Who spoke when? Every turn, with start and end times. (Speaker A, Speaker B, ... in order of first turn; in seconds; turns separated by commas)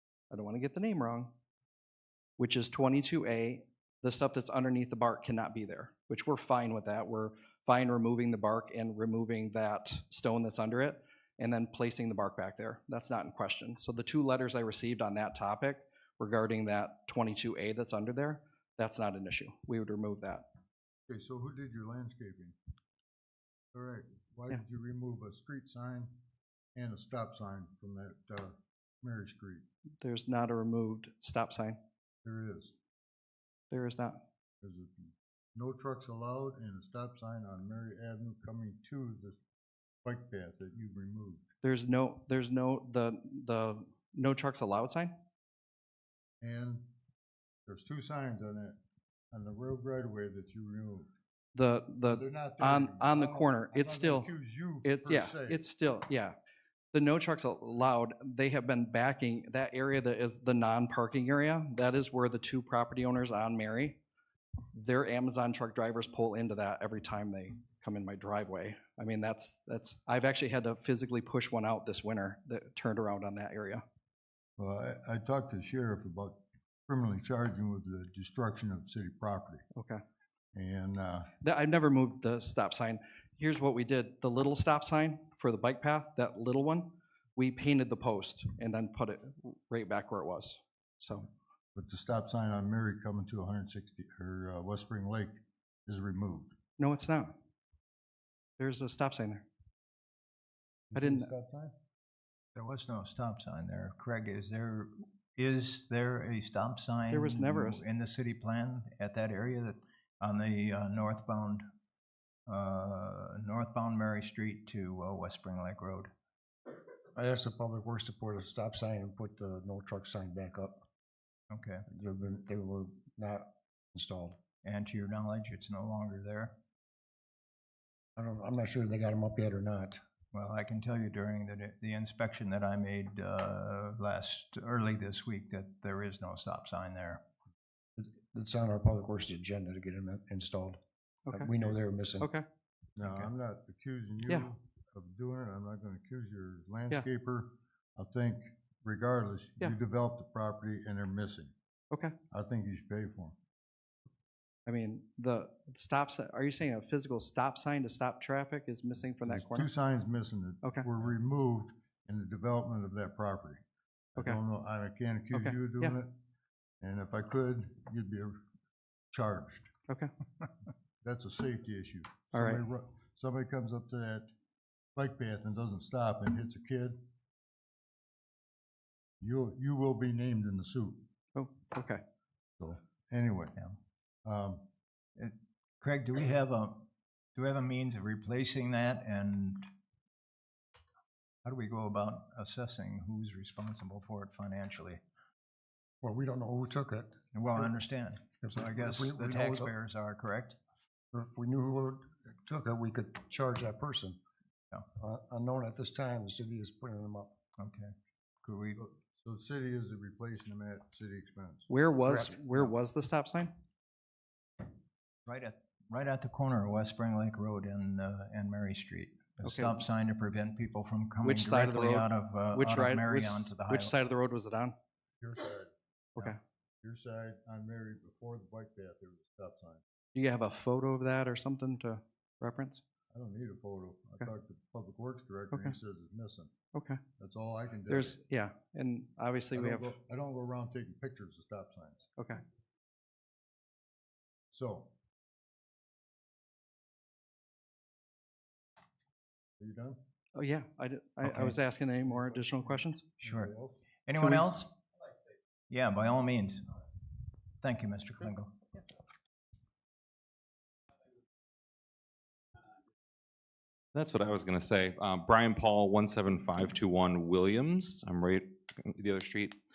Speaker A: 0.3-1.3, Speaker A: 2.4-20.4, Speaker B: 21.1-22.5, Speaker B: 23.7-26.1, Speaker B: 26.7-29.6, Speaker A: 30.0-31.8, Speaker B: 32.2-32.7, Speaker A: 33.7-34.2, Speaker B: 34.6-39.4, Speaker B: 40.0-41.4, Speaker A: 41.6-45.1, Speaker B: 46.4-46.9, Speaker B: 47.6-48.8, Speaker B: 49.3-51.1, Speaker A: 51.5-54.3, Speaker B: 52.0-55.6, Speaker A: 54.8-56.3, Speaker A: 56.9-64.0, Speaker A: 64.7-73.8, Speaker B: 74.6-79.6, Speaker A: 79.7-80.0, Speaker B: 80.5-81.3, Speaker A: 81.4-91.3, Speaker B: 91.7-96.5, Speaker A: 96.8-97.3, Speaker A: 98.6-99.4, Speaker B: 100.9-101.7, Speaker A: 100.9-101.3, Speaker C: 102.5-111.6, Speaker A: 107.1-107.8, Speaker C: 112.5-116.1, Speaker D: 117.1-120.8, Speaker C: 121.5-121.8, Speaker D: 121.9-124.4, Speaker C: 124.6-126.5, Speaker D: 128.2-130.0, Speaker C: 130.3-137.2, Speaker D: 138.0-140.8, Speaker D: 141.3-142.3, Speaker A: 142.2-142.4, Speaker B: 142.9-151.5, Speaker C: 143.0-143.3, Speaker B: 152.3-153.3, Speaker A: 154.7-159.7, Speaker B: 159.2-163.6, Speaker A: 160.6-160.9, Speaker B: 164.1-166.1, Speaker A: 165.3-166.0, Speaker B: 166.8-168.4, Speaker B: 169.1-169.7, Speaker B: 171.0-174.3, Speaker A: 172.3-172.6, Speaker B: 174.9-176.9, Speaker B: 179.2-181.0, Speaker A: 181.3-182.0, Speaker B: 182.6-183.6, Speaker B: 184.2-184.6, Speaker C: 185.2-189.7, Speaker C: 191.4-195.0, Speaker D: 196.0-197.7, Speaker C: 197.3-200.6, Speaker D: 198.4-199.7, Speaker D: 201.1-204.2, Speaker D: 205.0-207.3, Speaker C: 207.6-207.9, Speaker C: 208.4-208.8, Speaker B: 208.8-211.7, Speaker A: 211.7-213.5, Speaker D: 212.1-212.3, Speaker C: 215.2-224.0, Speaker A: 219.4-219.8, Speaker A: 221.2-224.7, Speaker B: 225.2-229.8, Speaker A: 230.1-232.8, Speaker B: 233.1-236.5, Speaker A: 235.5-235.8, Speaker A: 236.7-237.0, Speaker B: 237.2-238.2, Speaker A: 237.9-239.9, Speaker B: 239.5-242.1, Speaker B: 244.5-244.9, Speaker B: 249.6-250.0, Speaker A: 250.3-253.0, Speaker C: 251.2-251.6, Speaker B: 252.0-253.8, Speaker C: 253.2-253.5, Speaker C: 254.1-254.8, Speaker A: 254.2-254.4, Speaker C: 255.7-256.9, Speaker C: 257.6-258.5, Speaker E: 263.9-269.6